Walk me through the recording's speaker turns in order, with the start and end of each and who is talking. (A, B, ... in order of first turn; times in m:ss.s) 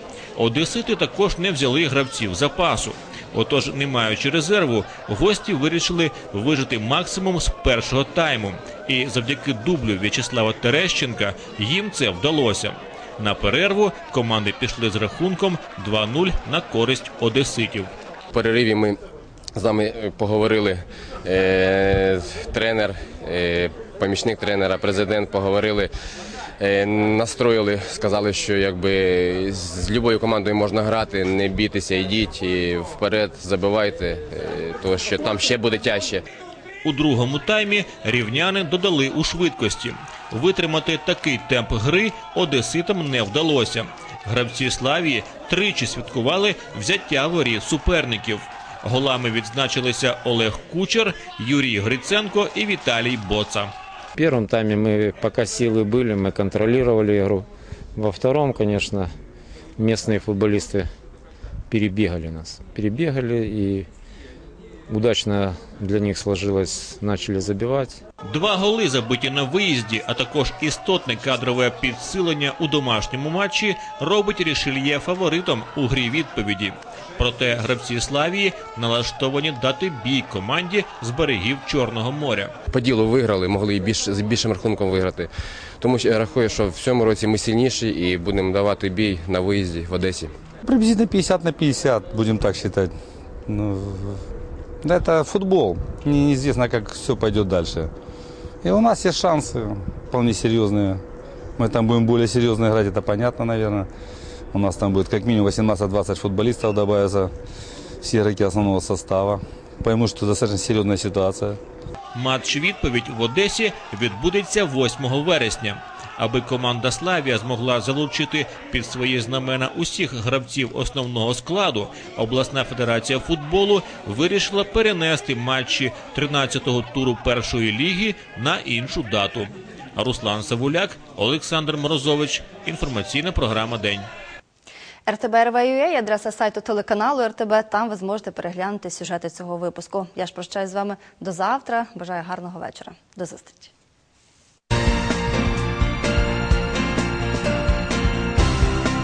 0:00.4-0:17.9 A
0:18.3-0:19.0 B
0:19.6-0:25.9 B
0:26.6-0:36.2 B
0:36.8-0:53.7 A
0:54.2-0:57.4 C
0:58.0-0:59.0 C
0:59.8-1:00.8 C
1:01.7-1:03.8 C
1:04.9-1:07.9 C
1:08.2-1:22.5 A
1:22.7-1:30.3 B
1:30.6-1:32.9 D
1:33.5-1:34.2 D
1:34.8-1:37.9 D
1:38.6-1:41.0 D
1:41.6-1:43.9 D
1:44.5-1:47.3 D
1:48.0-1:51.6 D
1:52.1-2:14.1 A
2:15.1-2:23.7 E